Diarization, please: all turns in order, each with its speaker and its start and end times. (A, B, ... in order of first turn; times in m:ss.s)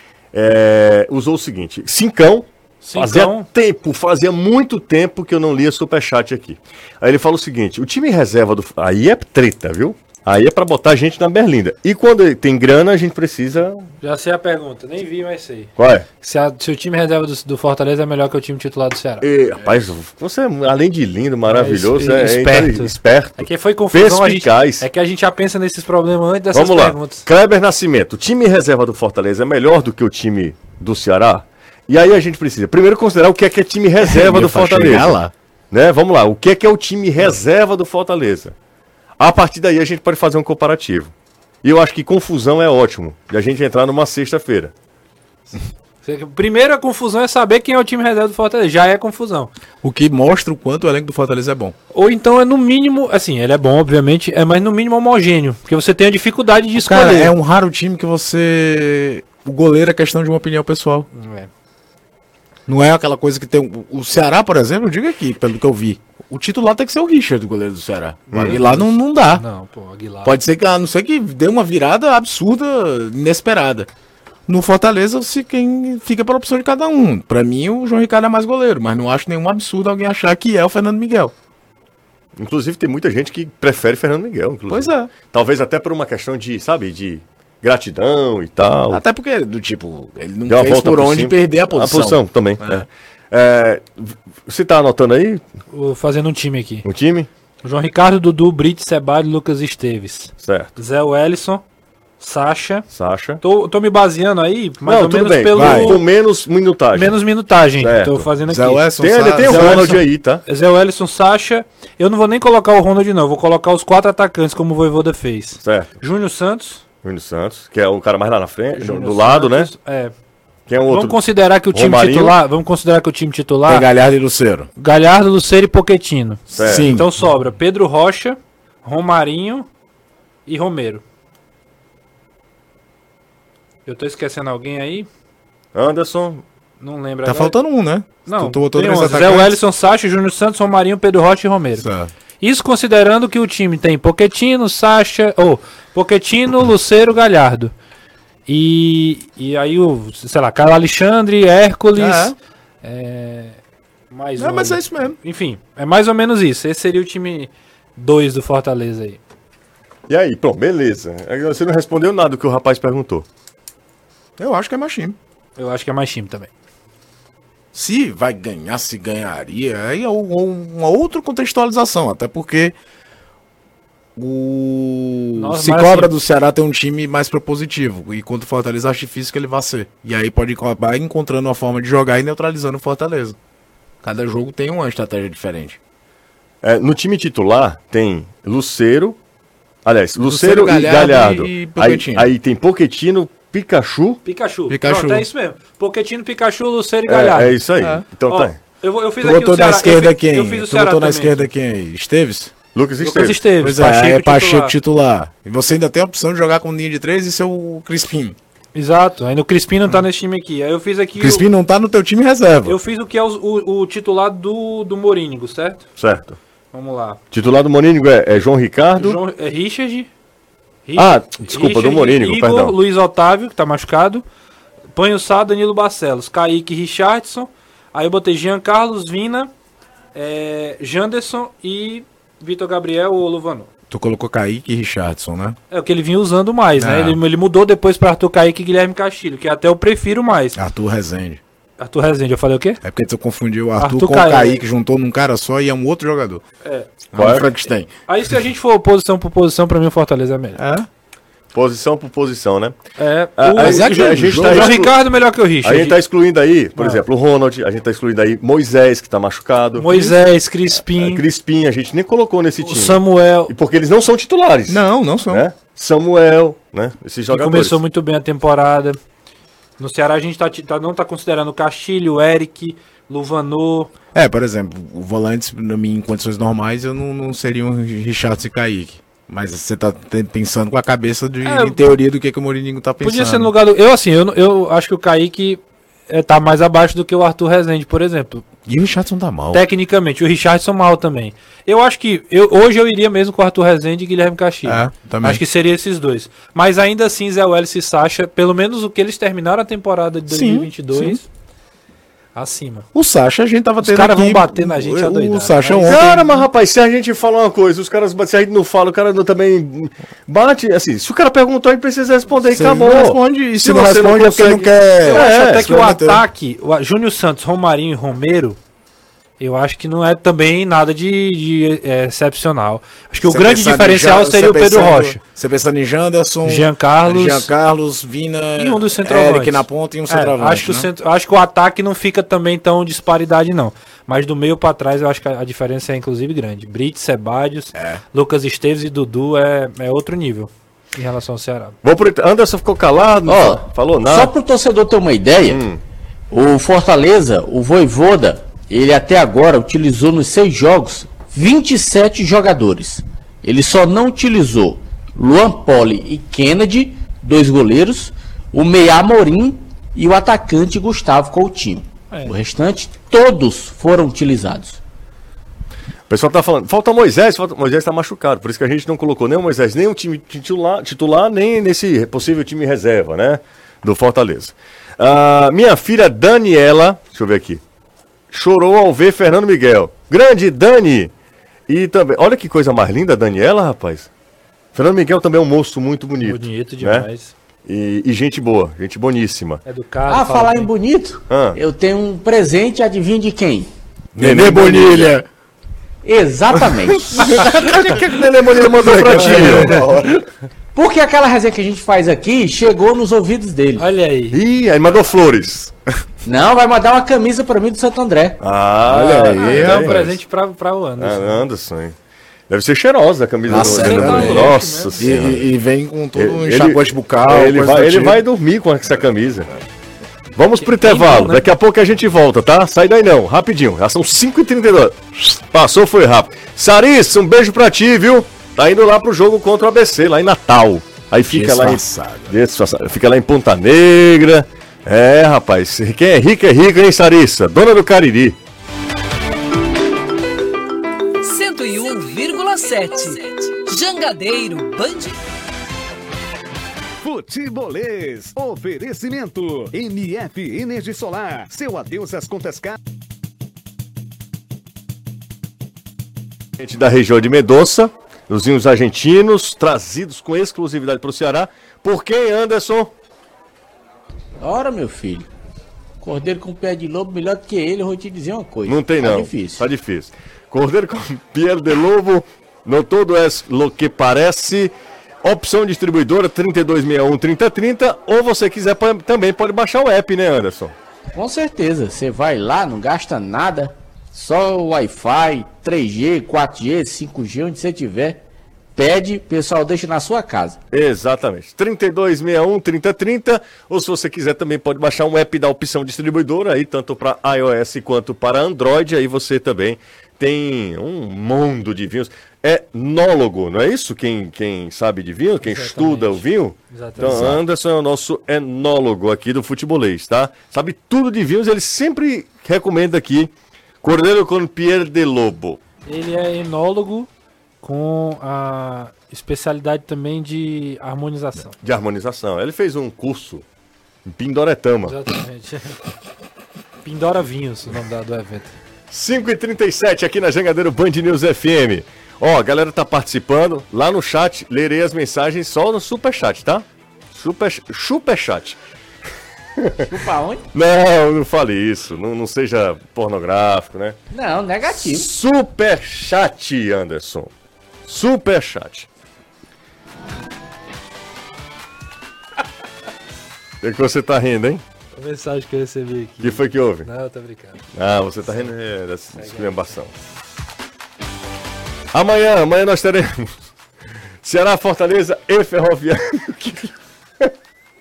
0:00.3-0:13.9 A
0:02.8-0:03.5 B
0:14.0-0:19.2 B
0:15.8-0:16.1 A
0:19.2-0:24.9 A
0:21.5-0:27.3 B
0:26.5-0:35.2 A
0:34.0-0:35.3 C
0:35.7-0:38.6 A
0:39.2-0:41.1 A
0:41.6-0:44.7 A
0:46.0-0:49.5 B
0:49.8-0:51.8 C
0:51.9-0:57.3 B
0:56.8-1:01.1 C
1:01.1-1:01.5 B
1:02.7-1:09.4 C
1:08.3-1:10.4 B
1:08.3-1:08.6 A
1:10.2-1:13.9 C
1:14.5-1:21.3 C
1:22.4-1:29.0 A
1:24.7-1:25.1 C
1:28.9-1:32.9 C
1:30.5-1:35.4 A
1:35.7-1:36.9 B
1:36.8-1:37.3 A
1:37.6-1:41.6 B
1:40.4-1:40.8 A
1:42.2-1:42.9 B
1:42.9-1:43.4 A
1:43.4-1:46.0 B
1:44.8-1:47.2 A
1:45.5-1:46.0 C
1:46.9-1:56.8 B
1:47.8-1:48.3 A
1:48.4-1:50.0 C
1:49.0-1:50.4 A
1:55.6-1:56.0 A
1:57.0-1:59.7 A
1:58.8-2:00.1 B
2:00.7-2:02.4 A
2:00.9-2:03.9 B
2:03.7-2:04.7 C
2:04.8-2:09.7 B
2:06.5-2:06.9 A
2:06.6-2:07.2 C
2:10.5-2:11.0 B
2:13.9-2:15.1 B
2:15.8-2:16.4 A
2:16.8-2:17.6 B
2:17.2-2:19.6 C
2:18.3-2:21.9 B
2:21.8-2:22.1 C
2:22.4-2:27.7 B
2:28.5-2:33.6 B
2:32.0-2:32.4 C
2:34.1-2:39.2 B
2:34.4-2:35.2 C
2:40.1-2:43.3 A
2:44.4-2:45.2 C
2:45.6-2:46.5 B
2:47.7-2:52.8 C
2:54.2-3:03.4 C
2:55.4-2:56.1 B
3:04.0-3:05.8 C
3:06.6-3:09.2 A
3:09.8-3:14.2 A
3:10.2-3:12.3 C
3:14.2-3:17.6 B
3:14.7-3:15.3 C
3:17.1-3:18.6 A
3:18.1-3:21.5 B
3:19.2-3:22.5 C
3:22.8-3:23.4 A
3:23.0-3:24.8 B
3:23.6-3:28.4 C
3:28.8-3:31.5 B
3:31.2-3:32.8 C
3:32.7-3:35.8 B
3:36.0-3:36.4 A
3:36.7-3:37.2 B
3:37.3-3:39.2 A
3:39.0-3:40.1 B
3:40.9-3:44.2 B
3:41.0-3:42.8 A
3:44.9-3:49.5 B
3:50.1-3:53.7 B
3:53.9-3:55.6 C
3:55.7-4:00.6 B
3:56.8-3:57.2 C
4:00.6-4:01.4 C
4:01.8-4:02.8 B
4:02.8-4:06.4 C
4:03.8-4:04.6 B
4:07.1-4:08.3 C
4:07.2-4:07.5 A
4:08.1-4:10.6 B
4:10.6-4:10.9 C
4:11.5-4:12.8 A
4:13.0-4:16.0 B
4:13.4-4:15.0 A
4:13.6-4:14.8 C
4:15.6-4:27.8 A
4:16.8-4:17.0 B
4:19.8-4:21.2 B
4:22.6-4:23.5 B
4:24.7-4:25.5 C
4:27.3-4:29.0 B
4:29.8-4:33.9 B
4:34.1-4:43.5 C
4:41.4-4:41.8 B
4:43.0-4:48.4 B
4:48.7-4:49.6 C
4:49.5-5:01.3 B
4:54.6-4:55.4 C
5:00.3-5:01.2 C
5:02.4-5:02.9 B
5:02.9-5:06.1 C
5:03.8-5:06.4 B
5:05.9-5:15.7 A
5:12.5-5:16.2 C
5:15.0-5:18.6 B
5:19.4-5:25.2 B
5:23.2-5:30.9 C
5:26.4-5:27.5 B
5:28.6-5:41.8 B
5:37.8-5:38.0 C
5:41.8-5:44.3 A
5:43.3-5:45.6 D
5:45.5-5:45.8 A
5:46.3-6:04.8 D
6:06.1-6:17.6 A
6:18.3-6:21.1 A
6:21.7-6:24.1 A
6:24.7-6:27.1 A
6:26.2-6:27.3 B
6:27.7-6:29.6 A
6:29.6-6:30.7 B
6:30.1-6:33.7 D
6:31.3-6:31.6 A
6:34.2-6:35.3 C
6:34.2-6:35.2 A
6:36.0-6:37.5 D
6:36.6-6:40.1 C
6:37.2-6:40.2 A
6:40.8-6:43.9 D
6:43.8-6:44.4 B
6:44.3-6:45.7 A
6:46.2-6:48.4 D
6:48.4-6:50.2 A
6:48.8-6:50.0 C
6:49.3-6:51.5 B
6:51.0-6:52.0 A
6:52.5-6:55.5 A
6:53.5-6:58.2 C
6:53.5-6:55.1 B
6:56.2-6:59.5 A
7:00.4-7:18.4 A
7:00.6-7:01.5 B
7:11.3-7:12.3 C
7:21.2-7:25.2 E
7:27.0-7:32.8 F
7:36.6-7:42.9 A
7:44.4-7:45.3 D
7:46.0-7:49.6 D
7:48.6-7:54.7 A
7:55.2-8:00.7 A
8:01.2-8:08.2 D
8:08.8-8:10.6 D
8:10.7-8:33.3 A
8:25.4-8:27.4 B
8:27.0-8:27.4 C
8:33.8-8:35.6 A
8:35.9-8:37.1 B
8:37.6-8:41.6 B
8:41.6-8:43.4 A
8:44.1-8:45.2 A
8:44.9-8:45.8 B
8:46.8-8:48.5 B
8:48.9-8:58.6 A
8:59.6-8:59.8 A
8:59.9-9:00.4 D
9:00.5-9:04.0 A
9:04.1-9:05.1 D
9:04.7-9:07.3 A
9:07.9-9:08.9 A
9:13.6-9:14.6 A
9:15.0-9:17.6 B
9:16.2-9:16.9 A
9:17.7-9:19.9 A
9:19.1-9:19.7 B
9:21.9-9:23.4 A
9:24.2-9:27.3 A